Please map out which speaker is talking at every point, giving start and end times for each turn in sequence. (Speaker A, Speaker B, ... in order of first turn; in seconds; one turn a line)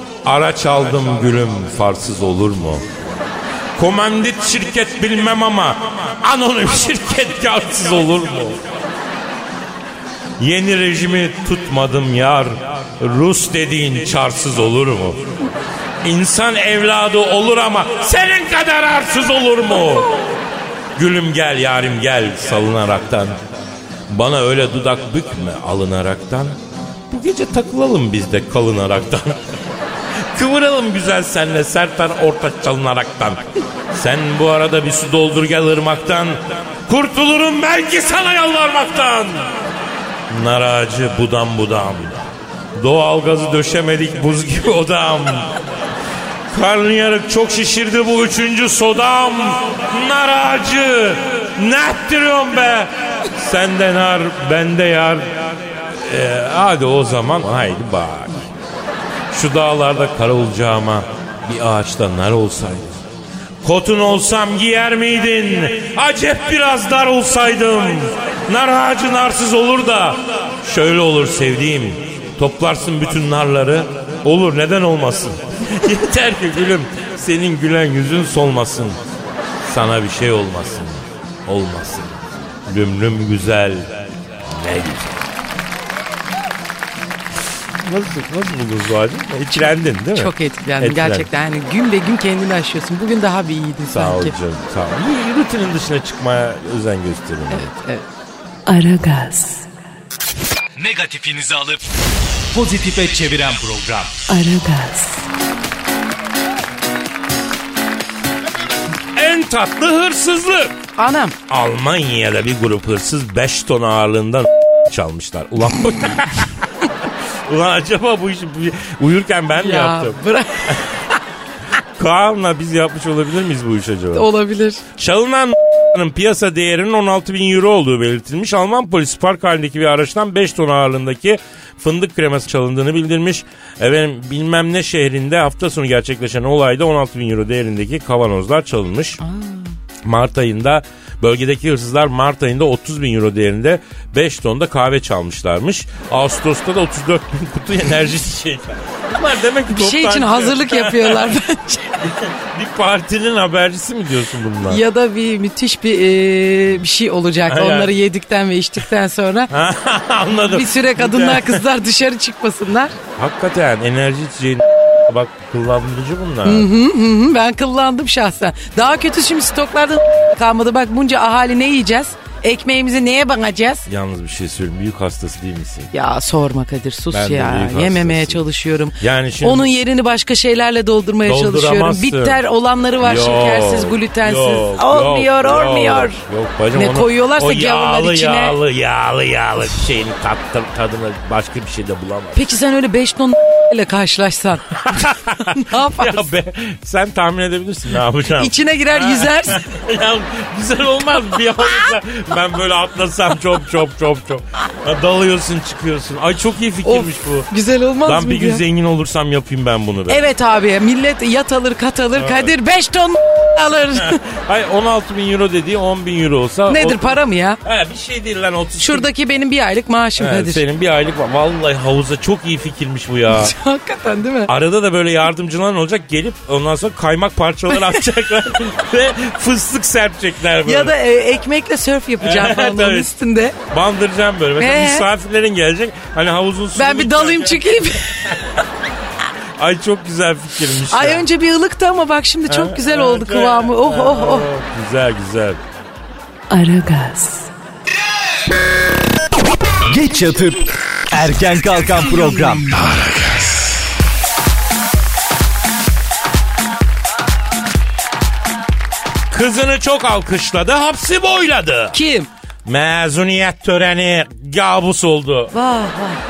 Speaker A: 0.2-2.8
Speaker A: 3.8-8.6
Speaker A: 10.4-15.4
Speaker A: 16.0-20.3
Speaker A: 21.0-23.4
Speaker A: 24.1-26.6
Speaker A: 27.1-29.4
Speaker A: 30.3-39.6
Speaker A: 40.3-42.2
Speaker A: 42.8-45.6
Speaker A: 46.5-58.5
Speaker A: 59.3-63.0
Speaker A: 63.6-79.0
Speaker A: 79.6-82.1
Speaker A: 82.7-85.3
Speaker A: 87.8-91.3
Speaker B: 90.2-94.3
Speaker A: 93.9-97.7
Speaker B: 97.5-98.0
Speaker C: 98.7-99.7
Speaker D: 100.8-101.9
Speaker D: 102.5-104.3
Speaker C: 104.3-105.3
Speaker A: 109.2-110.7
Speaker B: 111.0-111.3
Speaker A: 111.5-116.5
Speaker A: 117.5-120.2
Speaker B: 119.5-121.1
Speaker A: 122.0-124.3
Speaker B: 124.1-124.8
Speaker A: 125.0-139.2
Speaker B: 139.2-139.8
Speaker A: 140.0-151.4
Speaker B: 149.7-152.1
Speaker A: 152.0-154.8
Speaker B: 154.6-159.5
Speaker A: 157.5-157.9
Speaker A: 159.5-161.6
Speaker B: 160.5-163.0
Speaker A: 163.2-166.7
Speaker B: 166.4-173.9
Speaker A: 173.9-175.9
Speaker B: 175.9-186.2
Speaker A: 177.1-178.4
Speaker A: 179.0-179.7
Speaker A: 181.2-182.4
Speaker A: 183.0-192.4
Speaker B: 186.7-188.6
Speaker B: 192.3-196.3
Speaker A: 194.8-207.5
Speaker B: 198.4-199.6
Speaker B: 206.8-208.6
Speaker A: 208.1-210.3
Speaker B: 210.1-214.2
Speaker A: 212.2-212.5
Speaker A: 213.9-219.1
Speaker B: 216.7-217.6
Speaker B: 218.8-220.6
Speaker A: 220.2-223.6
Speaker B: 223.3-224.5
Speaker A: 224.5-231.0
Speaker B: 227.7-228.0
Speaker B: 230.6-233.6
Speaker A: 232.2-233.1
Speaker A: 233.7-238.4
Speaker B: 234.6-235.1
Speaker B: 236.8-238.5
Speaker A: 239.6-241.3
Speaker B: 240.9-244.5
Speaker A: 242.5-245.6
Speaker C: 246.5-247.5
Speaker D: 249.9-252.8
Speaker A: 252.7-253.7
Speaker A: 259.3-262.0
Speaker B: 261.9-262.3
Speaker A: 262.7-265.5
Speaker B: 265.5-266.2